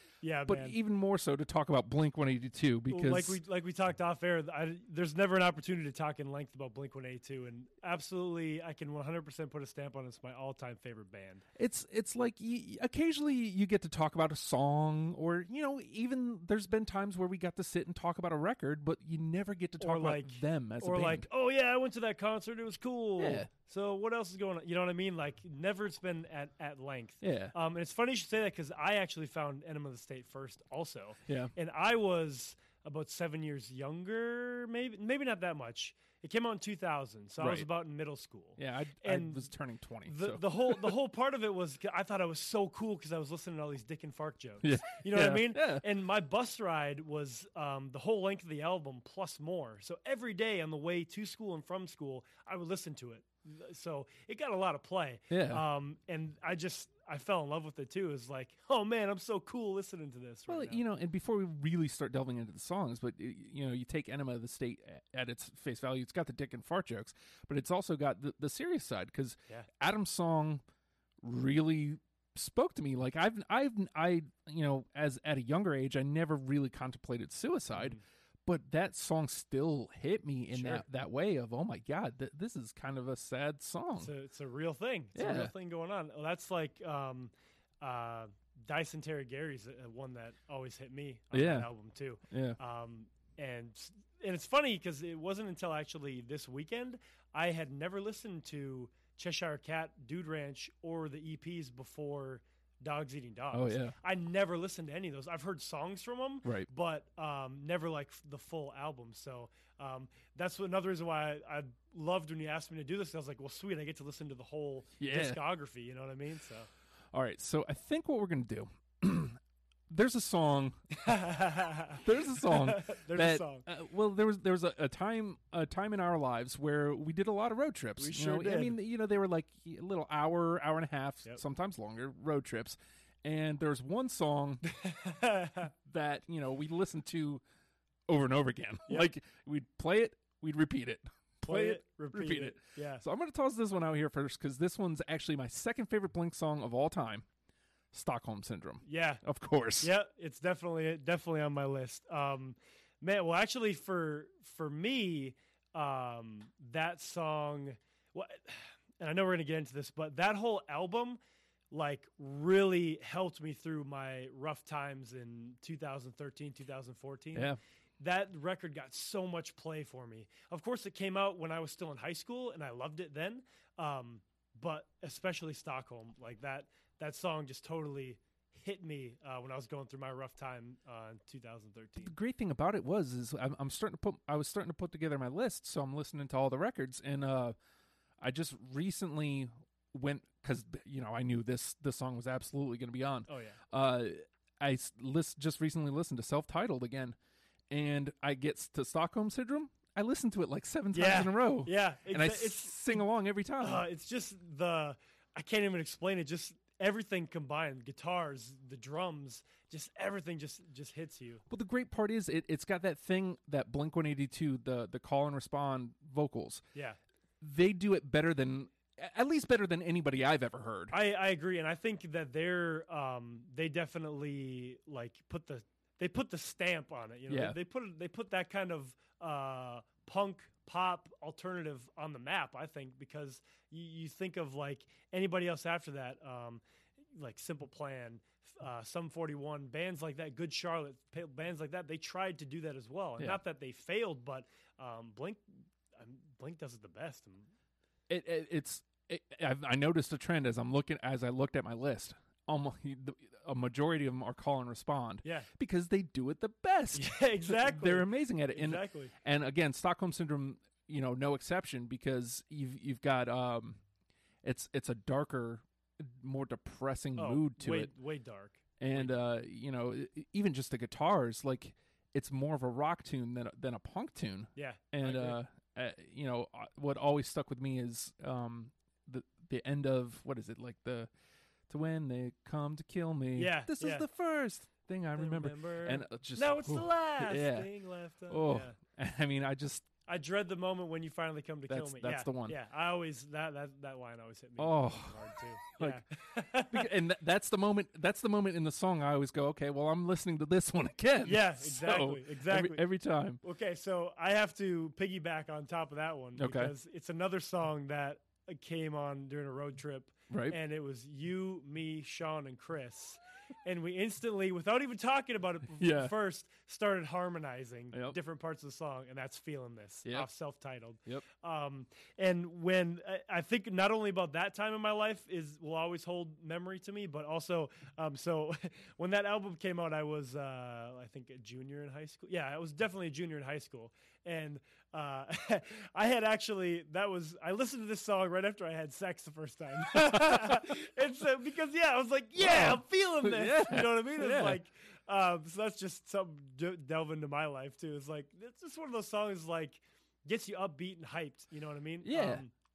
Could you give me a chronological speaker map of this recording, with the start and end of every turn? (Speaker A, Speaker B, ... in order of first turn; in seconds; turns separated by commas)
Speaker A: 0.2-0.8, Speaker B: 0.5-3.4, Speaker A: 2.9-11.4, Speaker B: 11.6-21.3, Speaker A: 19.8-39.5, Speaker B: 23.2-23.5, Speaker B: 27.2-27.5, Speaker B: 31.3-31.5, Speaker B: 37.4-37.7, Speaker B: 38.6-41.0, Speaker A: 40.0-60.8, Speaker B: 44.6-45.8, Speaker B: 55.3-55.6, Speaker B: 60.5-70.6, Speaker B: 71.2-84.1, Speaker A: 77.7-78.0, Speaker A: 80.5-80.8, Speaker A: 84.0-116.7, Speaker B: 85.1-85.5, Speaker B: 91.3-91.7, Speaker B: 92.3-92.6, Speaker B: 103.5-104.0, Speaker B: 115.0-115.4, Speaker B: 117.1-120.8, Speaker A: 120.9-123.7, Speaker B: 122.0-134.6, Speaker A: 128.0-128.8, Speaker A: 134.6-135.7, Speaker B: 135.8-137.4, Speaker B: 138.1-147.2, Speaker A: 141.4-143.0, Speaker B: 147.9-149.9, Speaker A: 148.8-149.2, Speaker A: 149.8-161.2, Speaker A: 161.7-182.1, Speaker B: 182.0-187.6, Speaker B: 188.2-197.2, Speaker A: 193.3-193.6, Speaker B: 197.7-203.8, Speaker A: 200.9-203.0, Speaker A: 203.6-211.4, Speaker B: 211.5-216.6, Speaker B: 217.4-220.9, Speaker A: 220.9-236.6, Speaker B: 227.3-227.6, Speaker A: 237.1-245.4, Speaker A: 245.9-247.5, Speaker B: 248.1-263.8, Speaker A: 255.2-255.5, Speaker A: 256.9-259.1, Speaker B: 264.4-267.9, Speaker A: 267.1-269.2, Speaker B: 268.8-281.1, Speaker A: 274.6-275.4, Speaker B: 281.7-287.7, Speaker A: 283.3-284.1, Speaker A: 285.1-288.8, Speaker B: 288.3-289.9, Speaker A: 290.1-296.9, Speaker B: 291.7-292.6, Speaker B: 294.6-296.0, Speaker B: 296.7-303.4, Speaker A: 301.2-302.8, Speaker A: 303.4-352.5, Speaker B: 306.4-306.7, Speaker B: 310.3-310.6, Speaker B: 315.8-316.1, Speaker B: 317.9-318.2, Speaker B: 339.9-340.6, Speaker B: 342.4-344.6, Speaker B: 352.0-352.4